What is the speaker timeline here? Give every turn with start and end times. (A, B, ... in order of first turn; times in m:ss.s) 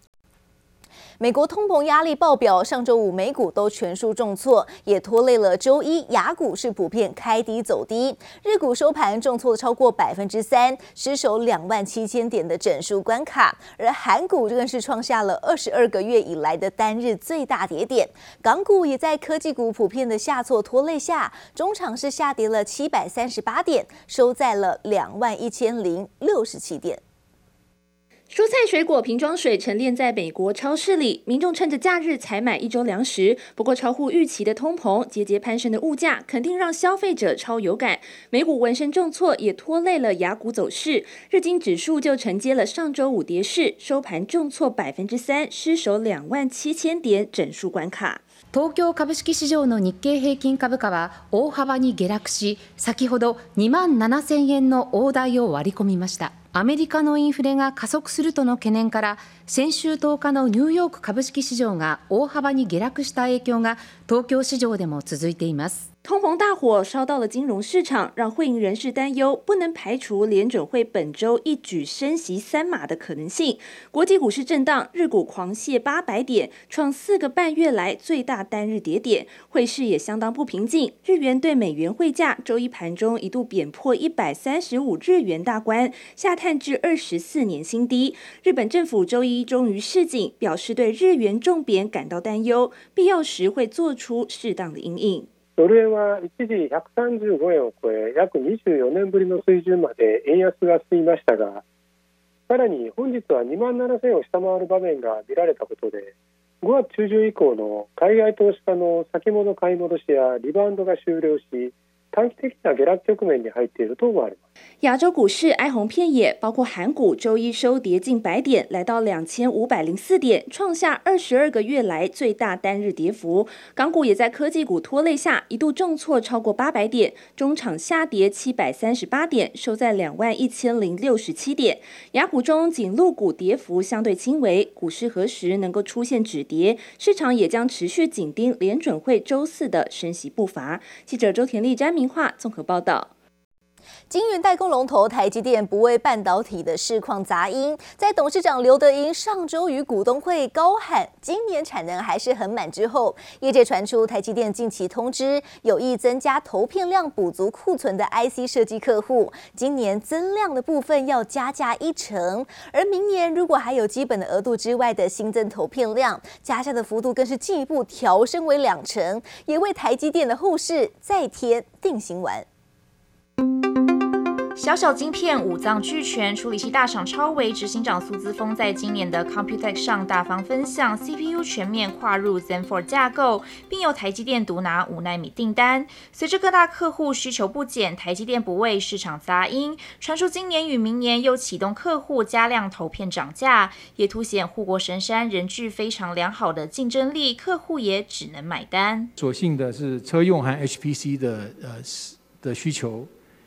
0:01.2-0:27.0 A
0:28.3-0:48.2 B
0:48.5-1:05.8 C
1:06.0-1:35.3 B
1:35.6-1:41.6 D
1:42.5-1:46.1 D
1:46.6-1:54.4 D
1:54.8-2:23.1 B
2:24.1-2:52.4 A
2:54.6-3:19.1 E
3:19.2-3:23.1 F